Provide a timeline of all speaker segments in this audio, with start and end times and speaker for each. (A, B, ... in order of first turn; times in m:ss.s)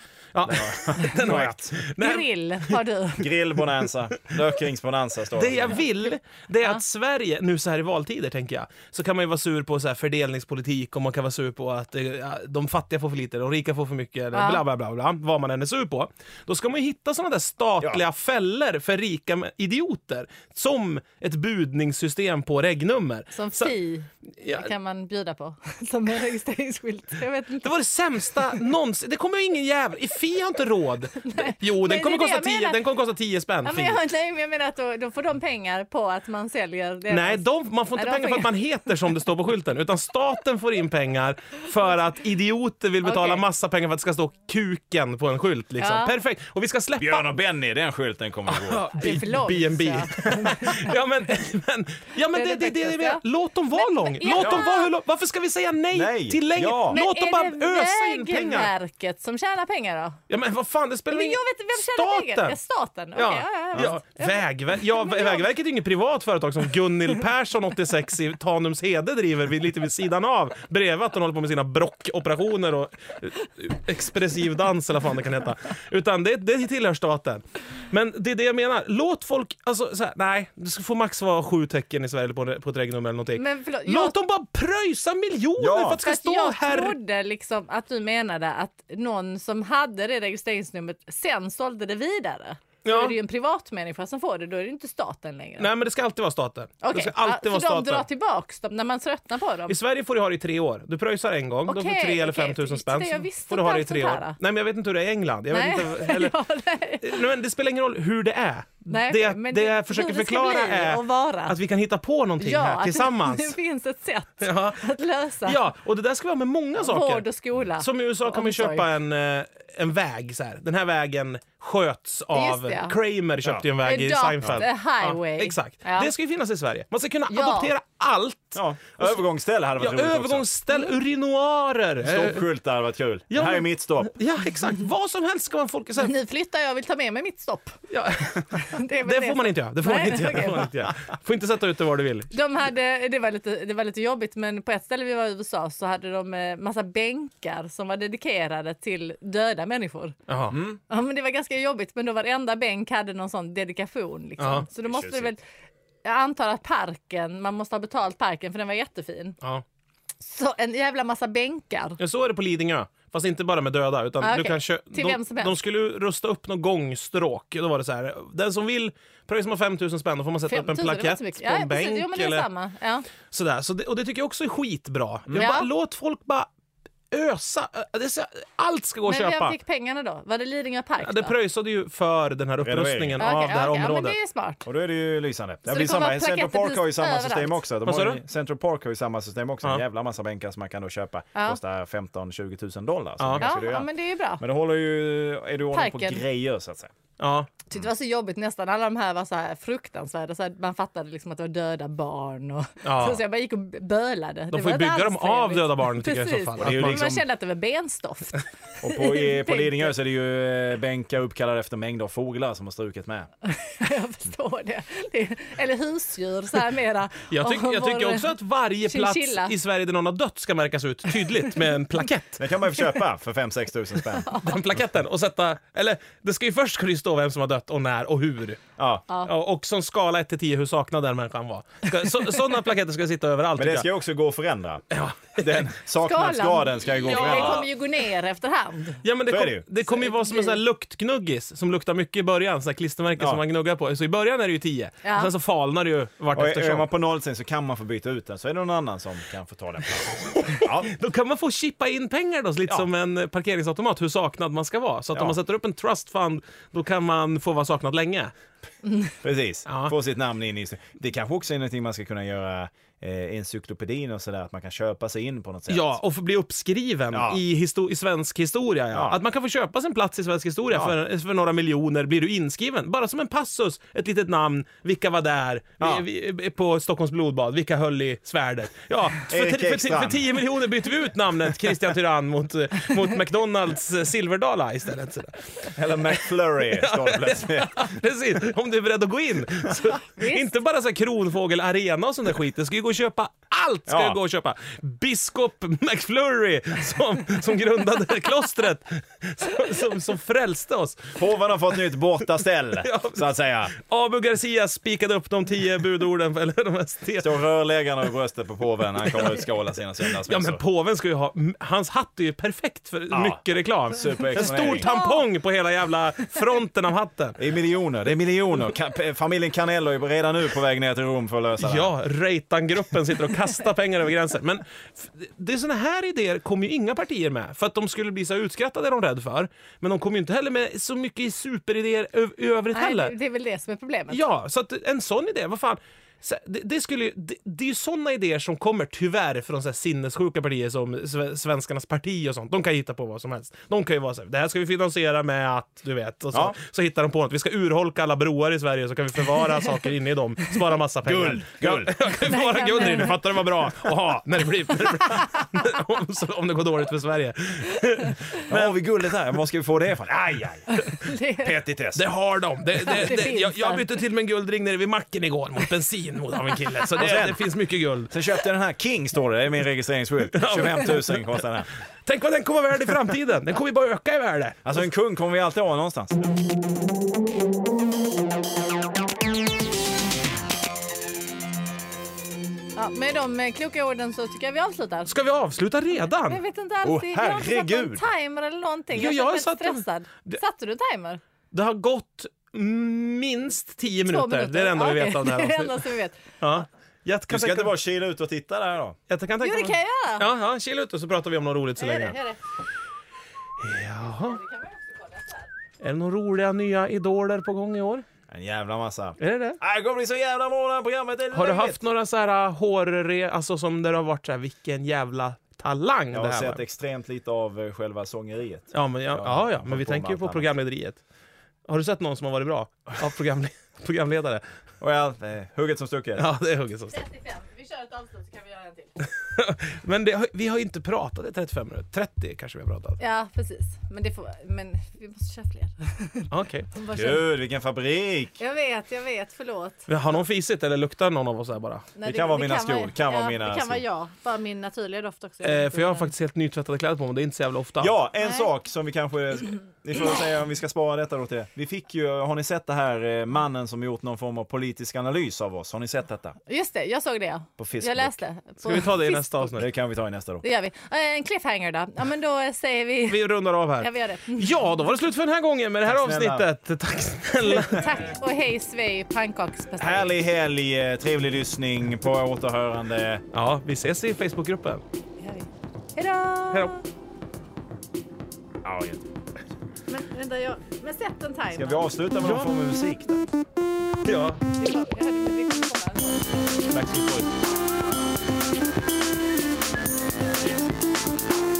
0:00.3-0:02.8 A
0:00.4-0:01.8 B
0:02.0-0:03.3 C
0:03.2-0:05.8 B
0:05.4-0:23.7 A
0:14.3-0:14.6 C
0:23.3-0:28.6 C
0:24.4-0:24.7 A
0:27.6-0:34.0 A
0:31.2-0:32.8 C
0:33.6-0:37.4 C
0:37.1-0:47.3 A
0:38.0-0:38.6 C
0:43.0-0:43.4 C
0:45.8-0:46.2 C
0:47.0-0:48.9 B
0:48.5-0:58.7 A
0:48.9-0:51.0 C
0:52.3-0:53.2 C
0:53.7-0:54.9 C
0:54.4-0:54.6 B
0:55.9-0:57.0 B
0:56.9-1:00.2 C
1:00.3-1:02.6 A
1:01.1-1:05.4 C
1:03.2-1:27.0 A
1:23.4-1:24.2 C
1:25.6-1:26.0 B
1:26.0-1:35.7 C
1:32.8-1:33.2 A
1:35.6-1:38.1 A
1:36.8-1:39.8 C
1:39.7-1:46.4 A
1:41.7-1:44.4 C
1:45.5-1:47.2 C
1:47.0-1:53.6 A
1:48.9-1:51.6 C
1:52.4-1:55.6 C
1:54.4-1:54.8 A
1:55.4-1:57.3 A
1:56.8-1:58.9 C
1:57.8-2:09.2 A
2:02.3-2:03.0 C
2:03.8-2:06.1 C
2:07.3-2:07.7 C
2:08.6-2:10.5 B
2:09.8-2:12.5 A
2:12.0-2:14.2 B
2:13.3-2:16.1 A
2:16.0-2:17.8 C
2:17.9-2:22.3 A
2:18.5-2:20.7 C
2:22.3-2:30.2 C
2:30.3-2:30.6 A
2:30.5-2:30.8 B
2:30.9-2:35.4 C
2:34.4-2:34.7 A
2:34.8-2:35.3 B
2:36.0-2:39.4 C
2:40.2-2:42.0 C
2:42.0-2:52.5 A
2:44.2-2:45.6 C
2:50.5-2:53.1 C
2:53.3-2:56.5 A
2:55.3-2:55.5 B
2:55.4-2:55.7 C
2:57.1-2:59.6 A
2:59.1-3:01.3 C
3:01.0-3:04.2 A
3:02.6-3:03.3 B
3:03.2-3:04.6 C
3:04.6-3:13.9 B
3:05.7-3:07.6 C
3:07.8-3:08.2 A
3:13.2-3:13.4 A
3:13.4-3:14.4 C
3:14.4-3:16.9 B
3:15.7-3:16.2 C
3:17.2-3:17.5 A
3:17.7-3:29.9 C
3:22.8-3:23.2 A
3:24.5-3:27.2 A
3:26.6-3:27.2 B
3:28.8-3:33.3 B
3:33.5-3:38.4 C
3:37.3-3:42.4 A
3:38.9-3:39.6 C
3:42.4-3:44.3 B
3:44.1-3:44.8 C
3:44.4-3:48.6 A
3:48.8-3:49.0 B
3:49.2-3:53.9 A
3:53.6-3:54.8 B
3:54.9-3:55.7 A
3:55.4-3:57.7 B
3:56.0-3:59.0 C
3:57.0-3:57.7 A
3:59.0-4:06.9 A
3:59.3-3:59.6 B
3:59.8-4:00.6 C
4:05.0-4:05.3 C
4:06.3-4:10.9 B
4:10.3-4:18.3 A
4:19.2-4:25.9 B
4:19.7-4:19.9 A
4:25.7-4:46.2 A
4:27.1-4:27.4 B
4:28.9-4:29.2 B
4:39.3-4:40.3 B
4:45.7-4:48.0 B
4:46.7-5:01.2 A
4:50.0-4:50.5 C
4:53.9-4:54.2 B
5:01.2-5:03.7 B
5:02.8-5:07.4 A
5:07.2-5:10.6 B
5:10.2-5:17.4 A
5:13.1-5:13.4 B
5:13.9-5:14.9 B
5:14.6-5:15.2 C
5:17.4-5:21.9 B
5:21.6-5:33.1 A
5:32.7-5:34.2 C
5:34.1-5:58.7 A
5:51.0-5:51.9 B
5:52.2-5:53.2 C
5:55.0-5:55.5 C
5:58.5-6:00.7 B
6:00.8-6:01.5 C
6:01.4-6:02.1 B
6:02.0-6:08.2 A
6:02.7-6:03.9 C
6:07.0-6:07.4 B
6:08.1-6:11.7 B
6:10.3-6:11.3 A
6:12.1-6:14.6 A
6:14.6-6:16.2 B
6:22.8-6:25.1 C
6:25.1-6:26.4 A
6:26.1-6:31.2 C
6:26.8-6:28.1 B
6:29.0-6:30.4 A
6:31.5-6:37.7 A
6:34.0-6:36.2 C
6:37.3-6:39.0 B
6:39.1-6:42.2 A
6:39.4-6:40.3 C
6:41.8-6:42.4 C
6:43.6-6:44.4 A
6:44.2-6:45.5 C
6:45.8-6:48.0 A
6:48.3-6:51.8 B
6:49.2-6:49.6 A
6:51.3-6:56.6 A
6:56.1-7:00.5 B
6:58.7-7:01.0 A
7:01.7-7:04.4 A
7:04.8-7:06.2 B
7:06.2-7:07.0 A
7:06.9-7:08.9 C
7:09.0-7:13.0 A
7:13.0-7:17.3 C
7:16.3-7:16.7 A
7:16.9-7:18.4 B
7:18.4-7:19.9 C
7:19.9-7:21.9 A
7:22.0-7:26.1 C
7:22.0-7:23.8 B
7:25.4-7:27.9 A
7:27.8-7:36.4 B
7:28.2-7:28.5 C
7:36.5-7:39.6 C
7:37.6-7:38.2 B
7:38.6-7:39.7 A
7:39.6-7:40.4 B
7:40.4-7:44.6 C
7:43.1-7:48.0 A
7:45.9-7:46.5 B
7:47.5-7:50.2 C
7:49.8-7:53.2 B
7:53.3-7:54.8 A
7:55.2-7:56.8 C
7:58.6-7:59.1 B
7:59.9-8:01.8 C
8:01.5-8:03.3 B
8:02.2-8:02.5 A
8:04.0-8:04.4 A
8:04.6-8:06.6 C
8:06.7-8:07.3 A
8:10.3-8:10.7 B